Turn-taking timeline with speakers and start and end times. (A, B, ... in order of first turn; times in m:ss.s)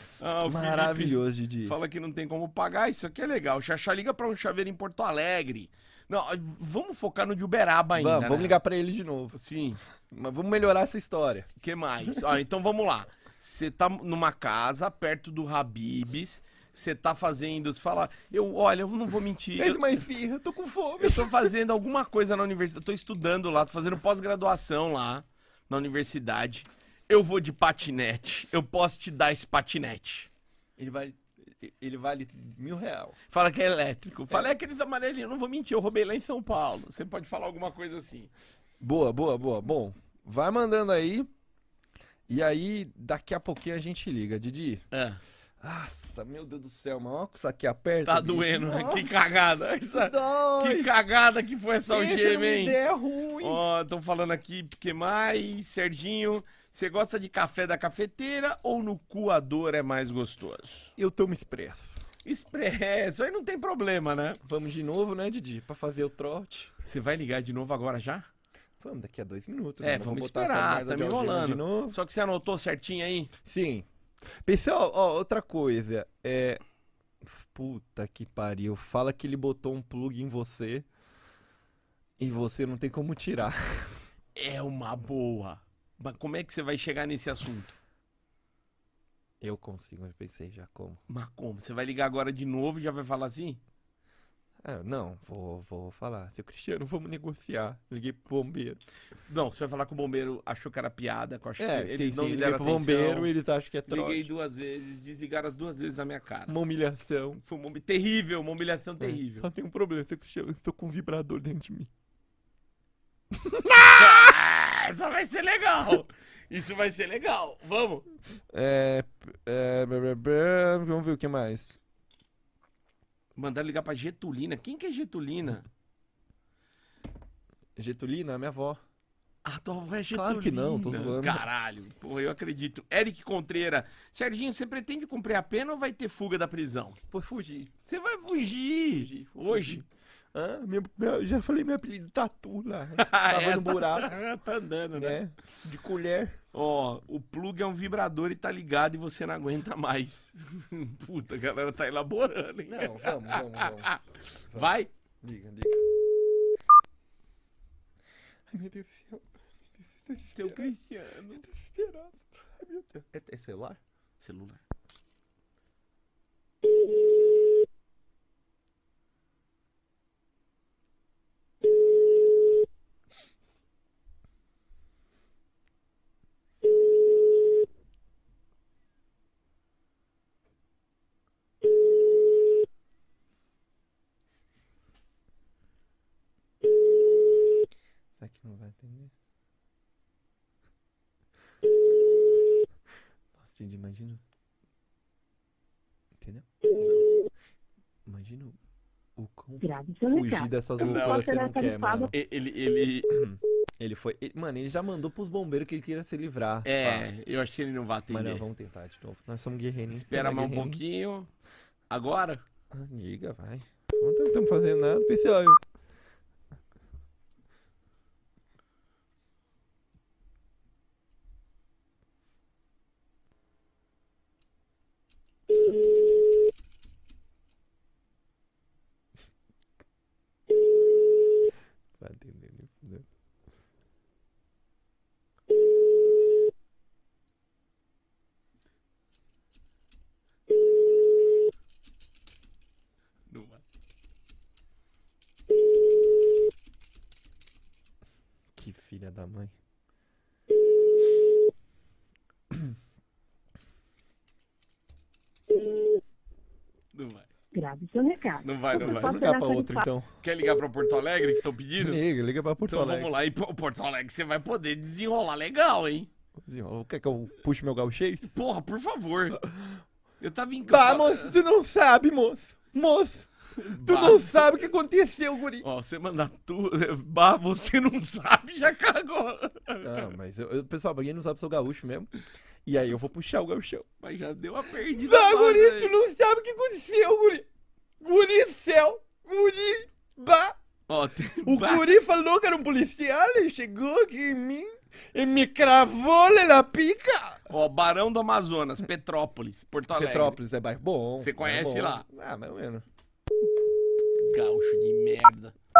0:00.2-0:08.6 A
0:00.4-0:01.8 B
0:07.9-0:09.4 B
0:09.3-0:09.8 A
0:10.1-0:11.5 B
0:11.6-0:19.8 A
0:19.6-0:21.5 B
0:21.0-0:30.3 A
0:30.8-0:33.2 B
0:33.3-0:38.3 A
0:38.8-0:41.3 B
0:42.3-0:44.8 B
0:44.9-0:45.2 A
0:45.6-0:49.1 B
0:48.0-0:52.8 A
0:49.9-0:50.9 B
0:51.9-0:53.6 B
0:53.4-1:00.9 A
1:01.0-1:02.0 B
1:02.2-1:04.4 A
1:04.4-1:06.7 B
1:06.8-1:08.3 A
1:08.8-1:12.0 B
1:09.8-1:13.3 A
1:13.4-1:13.8 B
1:14.4-1:16.6 B
1:17.2-1:20.8 B
1:22.2-1:24.0 B
1:24.3-1:27.8 A
1:29.4-1:31.0 B
1:31.1-1:33.6 A
1:34.6-1:38.8 B
1:39.3-1:43.3 A
1:41.6-1:44.3 B
1:43.9-1:46.6 A
1:46.5-1:47.4 B
1:47.4-1:49.5 A
1:49.0-1:51.9 B
1:53.3-1:54.3 B
1:53.9-1:58.0 A
1:58.5-2:01.8 B
2:03.4-2:05.6 A
2:07.8-2:08.8 B
2:09.4-2:17.0 A
2:10.1-2:11.4 B
2:17.1-2:17.7 B
2:17.9-2:19.8 A
2:18.9-2:24.1 B
2:23.0-2:25.2 A
2:24.9-2:26.4 B
2:26.5-2:34.0 A
2:32.7-2:33.9 B
2:34.5-2:35.8 B
2:34.5-2:34.9 A
2:38.5-2:40.7 B
2:40.3-2:41.4 A
2:41.3-2:43.8 B
2:44.2-2:44.6 A
3:08.2-3:09.1 B
3:13.4-3:14.2 B
3:16.2-3:16.4 B
3:16.8-3:17.1 A
3:18.0-3:18.6 B
3:19.2-3:22.1 B
3:19.6-3:20.5 C
3:20.8-3:21.5 A
3:21.2-3:22.0 C
3:22.1-3:23.2 A
3:23.1-3:27.1 B
3:26.6-3:28.4 A
3:28.1-3:30.8 B
3:29.9-3:31.3 A
3:31.9-3:32.4 A
3:32.7-3:35.6 B
3:52.0-3:53.0 B
4:03.3-4:03.6 A
4:08.5-4:09.5 B
4:16.9-4:17.3 A
4:17.5-4:19.8 C
4:18.4-4:19.2 A
4:18.7-4:20.1 B
4:20.2-4:22.0 A
4:21.8-4:23.1 B
4:22.6-4:26.1 A
4:26.4-4:28.3 B
4:28.2-4:29.4 A
4:30.2-4:31.4 A
4:30.6-4:35.6 B
4:33.6-4:34.3 A
4:35.6-4:40.1 A
4:39.8-4:42.1 B
4:42.6-4:43.9 B
4:44.0-4:45.9 A
4:44.9-4:47.4 B
4:48.0-4:50.6 B
4:50.9-4:51.9 A
4:51.4-4:57.4 B
4:57.5-5:00.4 A
4:59.8-5:02.8 B
5:01.2-5:02.0 A
5:04.2-5:05.6 A